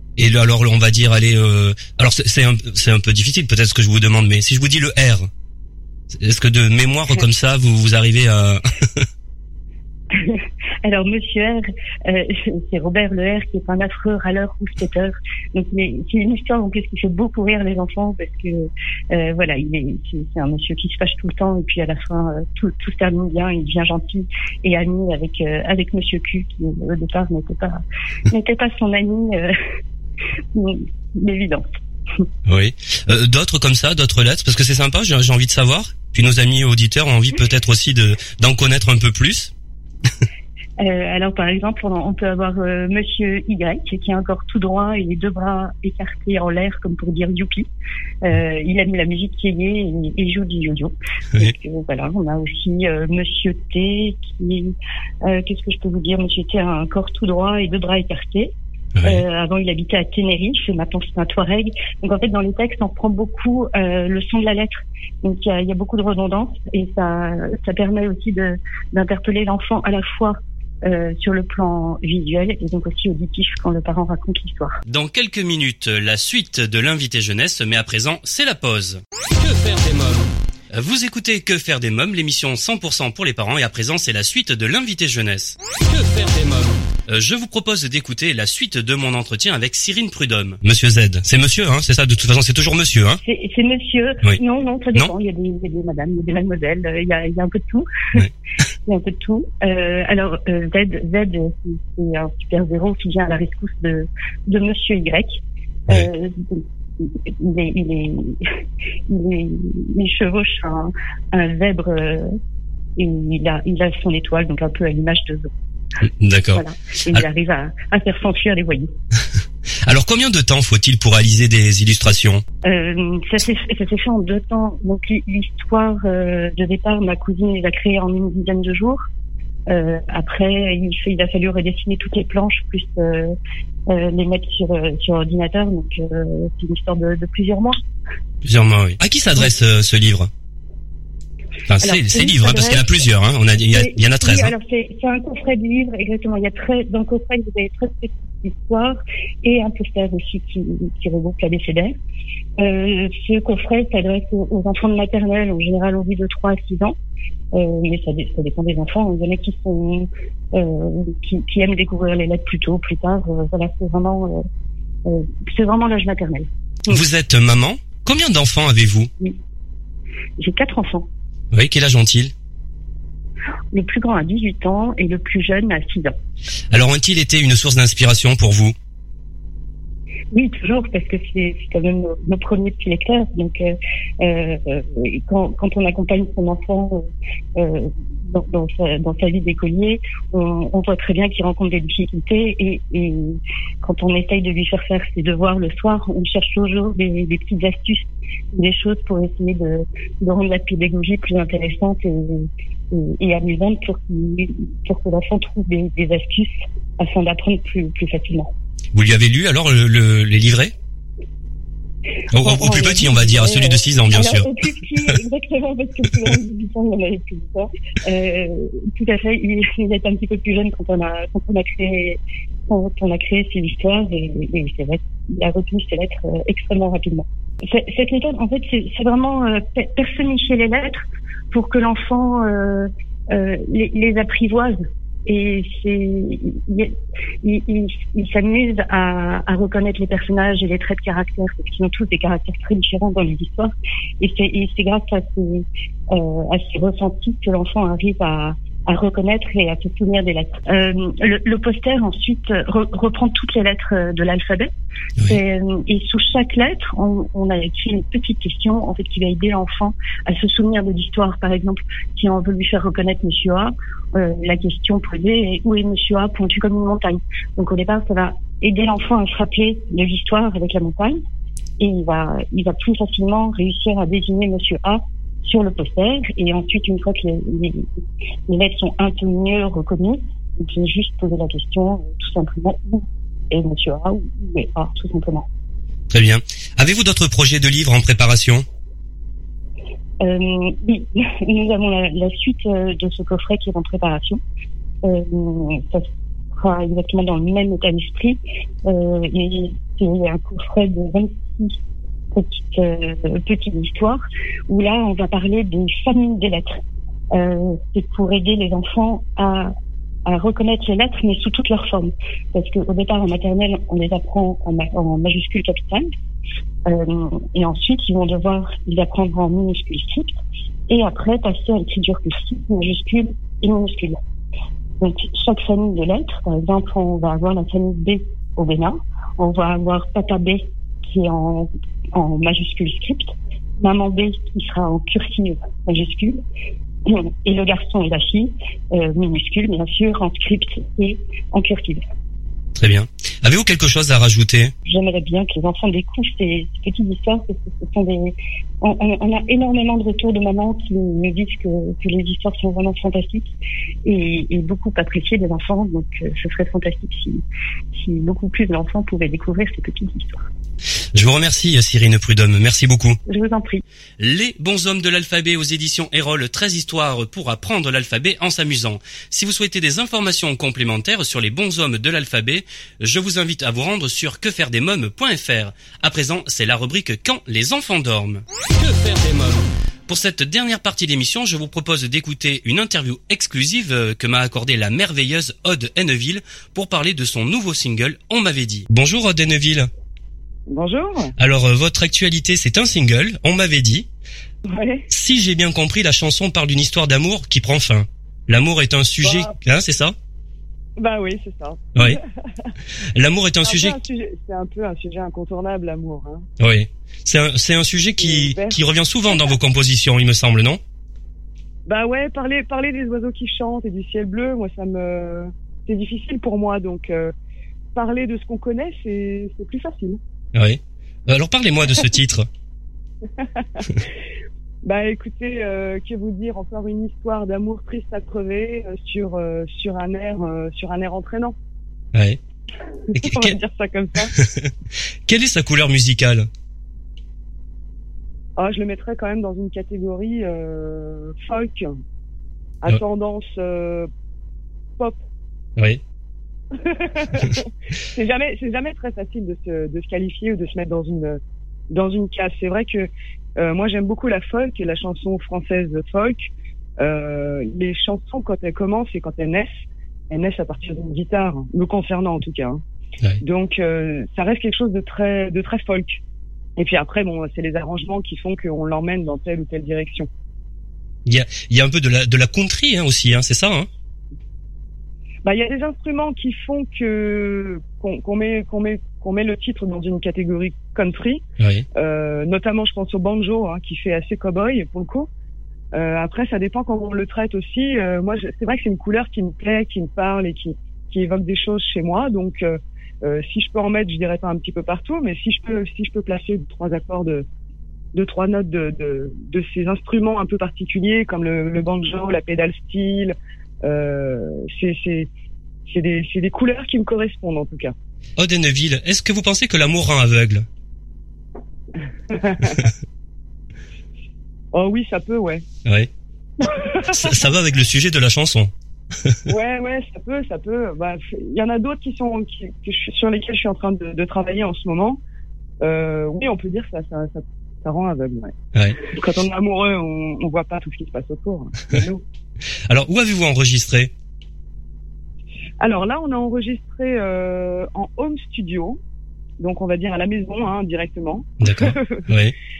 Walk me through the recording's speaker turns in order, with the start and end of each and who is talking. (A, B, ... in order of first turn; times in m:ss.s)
0:00.2-0:05.3 A
0:06.1-0:09.0 A
0:10.1-0:29.5 B
0:30.5-0:31.6 B
0:32.5-0:39.5 A
0:40.8-0:47.7 B
0:48.2-1:14.8 B
0:59.0-0:59.2 A
1:14.9-1:33.2 A
1:33.2-1:38.2 B
1:38.8-1:48.4 B
1:49.1-1:52.3 B
1:53.0-1:55.5 B
1:56.1-1:57.2 A
1:56.5-1:58.9 B
1:59.8-2:02.4 A
2:02.6-2:09.0 B
2:09.7-2:13.4 B
2:13.9-2:17.8 B
2:18.4-2:20.3 A
2:21.7-2:24.5 A
2:21.8-2:23.0 B
2:23.6-2:32.0 B
2:32.6-2:37.0 B
2:37.5-2:44.4 B
2:45.1-2:47.0 B
2:46.9-2:49.1 A
2:50.4-2:51.1 B
2:51.5-2:52.3 A
2:53.7-2:56.2 B
2:56.7-2:58.7 A
3:00.3-3:28.5 B
3:28.9-3:30.7 A
3:32.3-3:34.5 A
3:32.3-4:14.7 B
4:15.2-4:31.2 B
4:31.8-4:37.9 B
4:38.5-4:45.5 B
4:46.1-4:48.6 A
4:50.2-4:54.4 B
4:55.0-5:01.8 B
5:02.3-5:06.8 B
5:07.3-5:09.7 B
5:10.2-5:16.1 B
5:16.9-5:20.4 B
5:20.9-5:24.2 B
5:25.0-5:36.4 B
5:37.0-5:42.0 B
5:42.7-5:44.7 A
5:44.8-5:57.4 B
5:57.9-6:00.5 B
6:01.1-6:03.2 A
6:03.2-6:03.8 B
6:04.2-6:29.9 A
6:30.7-6:31.3 C
6:31.4-6:34.1 A
6:34.6-6:35.1 C
6:35.1-6:40.1 A
6:39.2-6:39.5 C
6:41.0-6:42.7 C
6:43.1-6:44.0 A
6:43.6-6:46.4 C
6:46.6-6:50.8 A
6:48.2-6:49.5 C
6:51.9-6:57.3 C
6:57.9-7:00.2 C
7:00.5-7:02.5 A
7:03.4-7:04.0 C
7:04.8-7:11.6 C
7:12.1-7:12.4 A
7:13.1-7:14.3 C
7:13.1-7:13.6 A
7:14.4-7:14.7 A
7:15.3-7:16.5 A
7:18.6-7:21.9 C
7:22.8-7:24.1 C
7:26.8-7:39.7 C
7:40.3-7:42.8 C
7:43.4-7:46.2 C
7:46.8-7:50.3 C
7:51.2-7:53.9 A
7:55.4-8:01.4 C
8:01.6-8:01.8 A
8:01.9-8:05.3 C
8:05.9-8:17.5 C
8:18.1-8:25.3 C
8:25.9-8:27.9 C
8:28.4-8:30.6 A
8:32.3-8:32.8 C
8:34.7-8:35.6 C
8:35.8-8:36.1 A
8:36.6-8:37.4 C
8:37.0-8:38.7 A
8:39.5-8:45.2 C
8:45.8-8:52.2 C
8:48.8-8:49.1 A
8:52.9-8:54.1 A
8:55.8-8:59.0 C
8:59.6-9:02.2 C
9:01.6-9:02.5 A